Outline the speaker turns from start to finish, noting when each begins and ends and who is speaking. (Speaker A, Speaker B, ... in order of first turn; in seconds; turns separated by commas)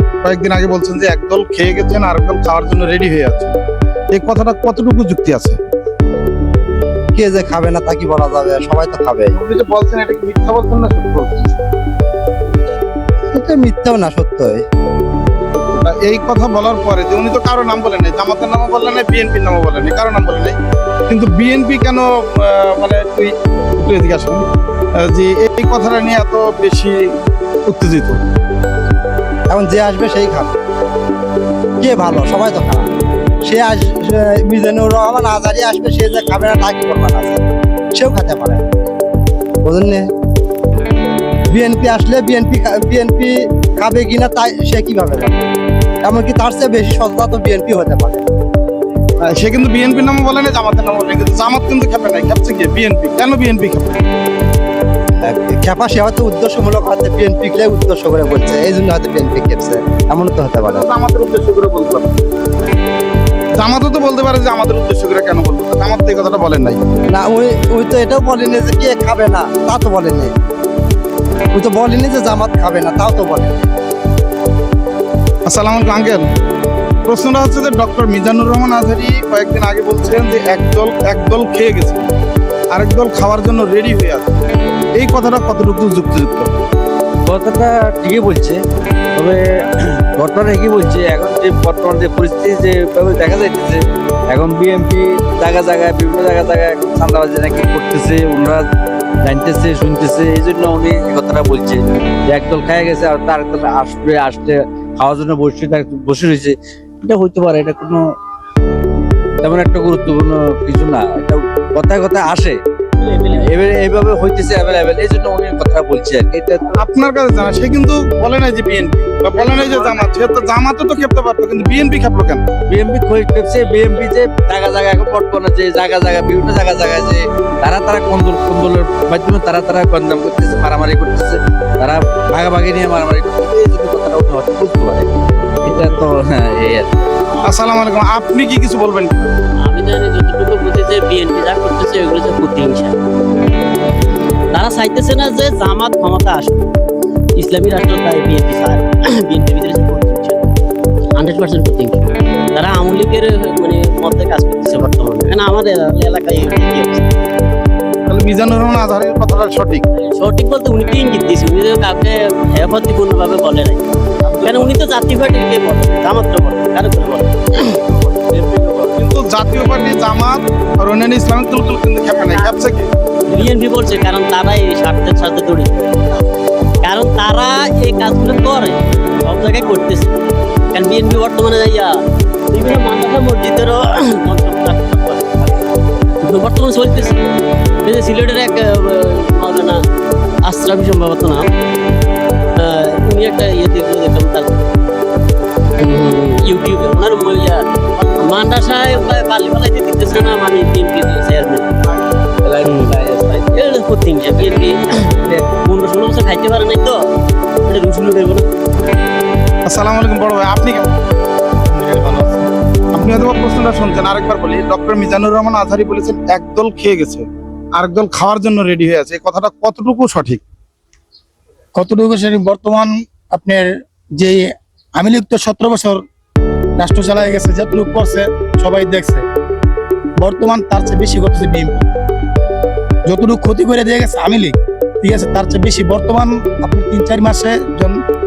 Speaker A: 0.2-3.5, Speaker A: 4.1-5.6, Speaker B: 7.2-9.4, Speaker A: 9.3-11.5, Speaker B: 13.3-14.6, Speaker A: 15.6-20.6, Speaker A: 21.1-27.1, Speaker A: 27.7-28.2, Speaker B: 29.5-30.5, Speaker B: 31.8-32.9, Speaker B: 33.4-37.4, Speaker B: 37.9-38.6, Speaker B: 39.6-40.0, Speaker B: 41.5-45.5, Speaker B: 46.0-48.3, Speaker A: 49.2-54.0, Speaker B: 55.2-60.8, Speaker A: 60.7-62.1, Speaker A: 63.6-66.8, Speaker B: 67.1-70.3, Speaker B: 71.5-73.7, Speaker A: 75.5-76.2, Speaker A: 77.1-82.1, Speaker A: 82.7-86.5, Speaker C: 87.3-88.6, Speaker C: 89.2-98.6, Speaker C: 99.2-108.0, Speaker C: 109.4-112.5, Speaker C: 113.2-116.7, Speaker A: 116.8-122.5, Speaker C: 122.7-135.1, Speaker C: 135.7-136.9, Speaker A: 137.4-139.3, Speaker D: 139.6-143.0, Speaker D: 144.5-146.7, Speaker D: 147.4-150.5, Speaker D: 151.2-157.1, Speaker A: 158.1-159.9, Speaker D: 160.0-167.9, Speaker C: 168.3-168.9, Speaker A: 168.9-173.5, Speaker D: 172.1-172.6, Speaker D: 173.3-176.2, Speaker D: 176.8-181.9, Speaker D: 182.5-185.7, Speaker D: 186.2-187.3, Speaker D: 187.8-189.8, Speaker D: 190.4-191.5, Speaker D: 192.6-194.6, Speaker D: 195.8-201.8, Speaker A: 198.0-199.2, Speaker C: 202.4-203.5, Speaker D: 202.6-207.0, Speaker D: 207.7-208.4, Speaker A: 209.7-210.9, Speaker E: 211.7-212.5, Speaker A: 212.9-220.4, Speaker E: 221.8-224.4, Speaker E: 225.0-226.0, Speaker E: 226.8-229.2, Speaker E: 230.2-231.8, Speaker E: 233.1-238.0